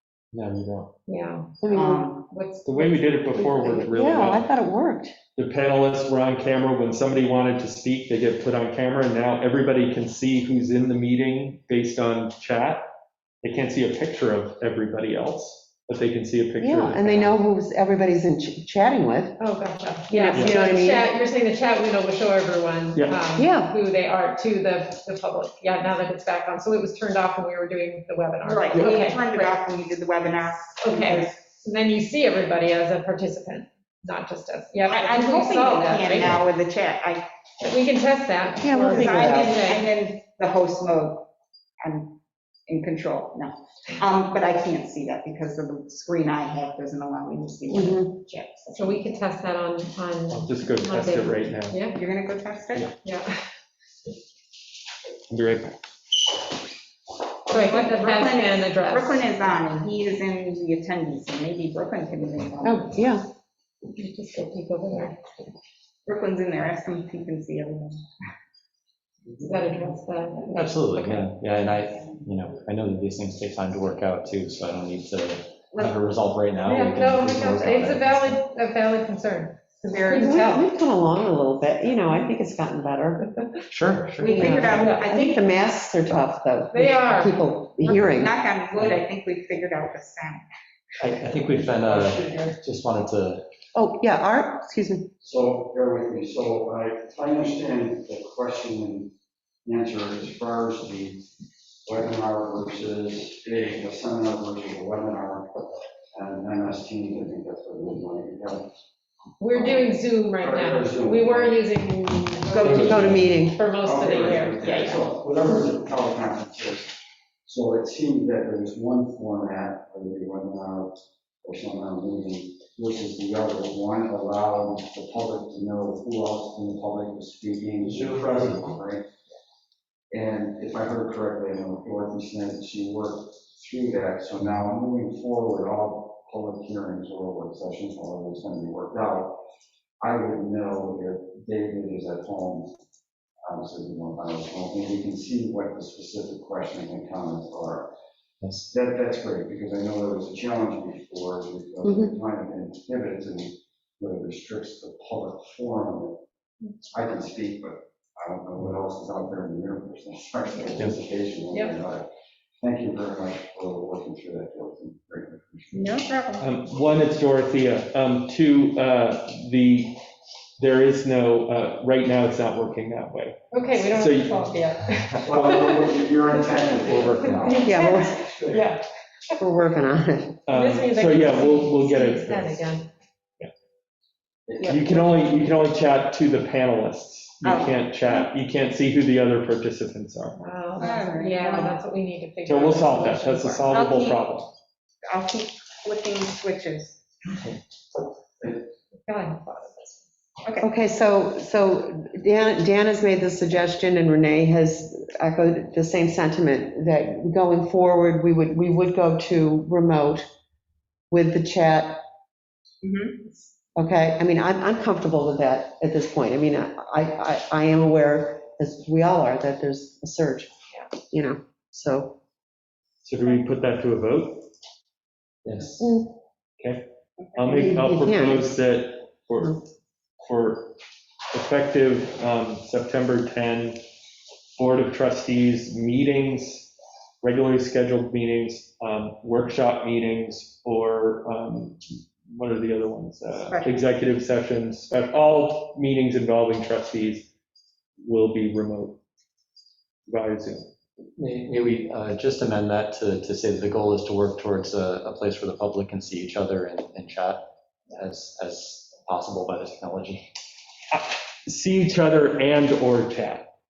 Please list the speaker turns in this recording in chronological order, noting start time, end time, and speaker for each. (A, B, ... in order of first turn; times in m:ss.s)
0:00.3-0:00.9 A
0:01.1-0:01.5 B
0:01.6-0:02.0 C
0:01.7-0:02.3 D
0:02.2-0:03.3 B
0:02.6-0:04.5 A
0:03.4-0:05.2 C
0:05.4-0:12.8 A
0:13.4-0:17.4 A
0:16.6-0:19.4 C
0:19.4-0:29.6 B
0:20.1-0:21.1 C
0:20.3-0:20.6 A
0:23.0-0:23.2 A
0:23.4-0:23.7 C
0:28.4-0:31.4 D
0:28.7-0:29.0 A
0:30.8-0:36.4 B
0:34.9-0:37.3 D
0:37.6-0:39.9 B
0:38.6-0:39.7 C
0:38.9-0:41.3 D
0:41.8-0:42.2 D
0:42.7-0:49.2 D
0:47.7-0:48.1 C
0:48.7-0:52.0 B
0:50.3-0:51.8 A
0:51.9-0:52.9 D
0:53.0-0:53.3 B
0:55.3-0:55.7 A
0:57.5-1:02.9 D
0:57.5-0:59.2 B
1:02.6-1:03.3 C
1:03.9-1:05.5 B
1:06.1-1:08.0 D
1:09.4-1:11.3 B
1:10.5-1:18.4 E
1:16.6-1:20.7 B
1:19.8-1:20.4 D
1:20.1-1:23.3 C
1:23.7-1:24.8 E
1:24.2-1:25.5 D
1:24.3-1:28.4 C
1:24.3-1:25.0 B
1:26.7-1:27.4 B
1:27.8-1:30.4 D
1:31.0-1:33.4 E
1:33.8-1:35.1 C
1:35.2-1:39.1 F
1:39.6-1:41.3 F
1:41.9-1:45.5 F
1:46.1-1:48.7 F
1:49.4-1:55.1 B
1:49.5-1:51.7 F
1:52.5-1:53.6 C
1:52.6-1:53.4 A
1:53.8-2:09.1 F
1:54.6-1:55.0 D
2:07.9-2:08.7 E
2:10.1-2:19.4 F
2:20.0-2:22.7 F
2:23.4-2:27.9 F
2:28.4-2:28.7 E
2:28.7-2:36.2 F
2:31.8-2:32.1 C
2:36.9-2:42.1 F
2:41.5-2:41.8 B
2:42.6-2:46.0 F
2:45.7-2:46.5 D
2:46.4-2:50.0 A
2:50.6-2:54.4 A
2:53.5-2:58.8 B
2:55.2-2:57.7 F
2:55.4-2:55.7 A
2:57.6-2:58.3 C
2:58.2-2:58.6 F
2:59.4-3:00.4 C
3:00.5-3:02.6 A
3:00.5-3:02.9 B
3:04.6-3:05.1 D
3:04.6-3:10.5 A
3:07.4-3:08.3 D
3:10.4-3:13.7 B
3:10.8-3:11.8 D
3:12.4-3:14.5 A
3:13.7-3:14.3 D
3:15.0-3:17.0 D
3:19.0-3:20.0 B
3:20.4-3:20.7 D
3:20.6-3:30.3 C
3:31.1-3:32.0 C
3:32.8-3:33.4 D
3:33.8-3:40.5 C
3:41.1-3:42.2 C
3:43.0-3:44.5 A
3:45.5-3:45.9 A
3:45.8-3:46.1 C
3:47.4-3:49.6 A
3:47.5-3:48.5 C
3:50.2-3:50.8 A
3:51.3-3:53.8 A
3:54.6-3:56.7 A
3:57.2-4:07.3 A
4:03.3-4:03.8 D
4:08.0-4:09.0 A
4:10.1-4:10.7 A
4:11.2-4:20.3 E
4:20.9-4:23.5 A